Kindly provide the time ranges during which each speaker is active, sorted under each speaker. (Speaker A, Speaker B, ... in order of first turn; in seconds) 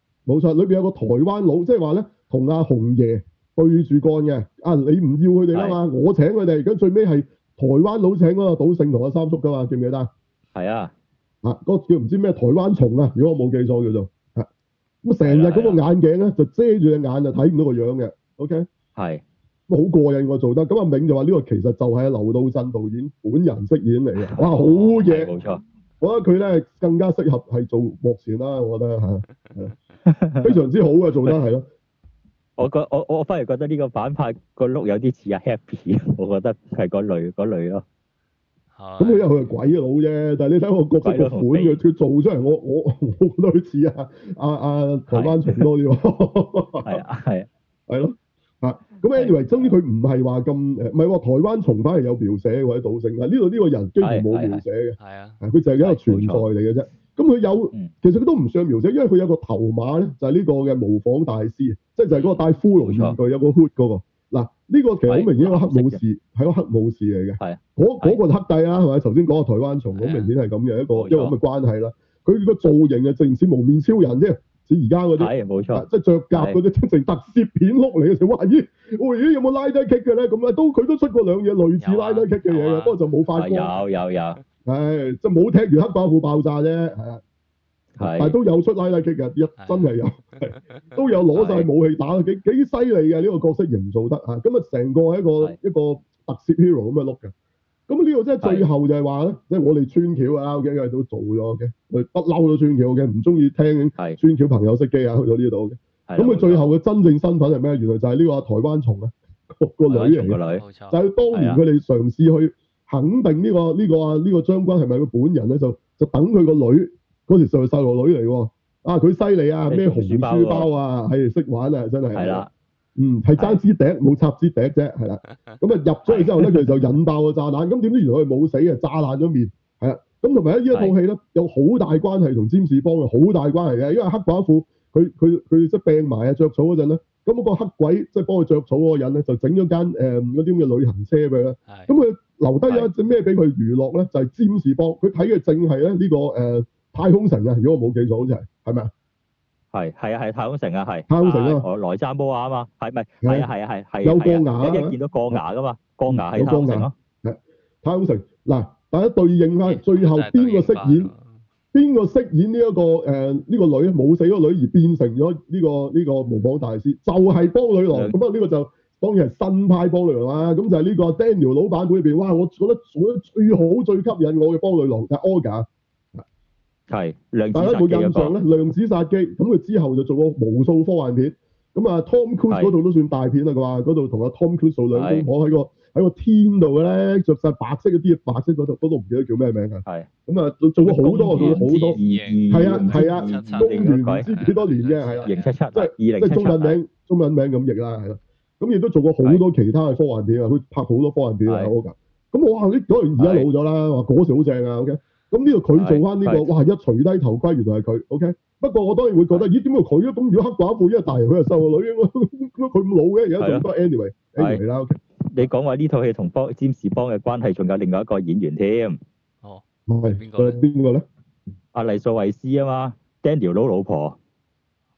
Speaker A: 0.3-10.1, 11.4-14.5, 15.0-18.7, 19.7-25.3, 26.0-29.7, 30.4-31.7, 39.0-47.0, 47.9-83.7, 84.6-87.2, 88.0-97.3, 97.9-110.4, 110.9-122.5, 123.0-148.9, 151.1-151.6, 153.2-153.5, 154.0-155.4, 156.1-161.1, 161.7-176.2, 177.5-215.0, 219.9-221.0
Speaker B: 5.5-5.8, 10.5-10.9, 15.2-15.8, 18.9-19.2, 24.2-25.6, 30.1-30.6, 32.6-37.8, 41.0-41.8, 45.1-45.6, 46.8-47.5, 49.1-49.7, 54.0-54.6, 55.8-56.5, 62.8-63.1, 65.1-66.0, 67.4-68.2, 70.9-71.3, 75.2-76.6, 83.4-84.4, 88.0-88.3, 91.3-91.7, 98.4-98.7, 106.1-106.7, 109.9-110.6, 111.3-111.6, 119.7-120.7, 122.1-122.5, 126.1-126.7, 149.7-156.9, 167.9-168.2, 176.9-178.3, 184.9-185.2, 190.8-194.3, 195.2-196.8, 203.2-203.5, 205.8-206.5, 213.4-213.6, 215.2-219.0, 221.7-224.2
Speaker C: 38.7-39.4, 55.0-55.4, 62.1-62.4, 70.0-70.3, 81.8-83.0, 89.6-89.9, 110.5-111.0, 159.6-161.3, 191.3-195.6, 219.4-220.6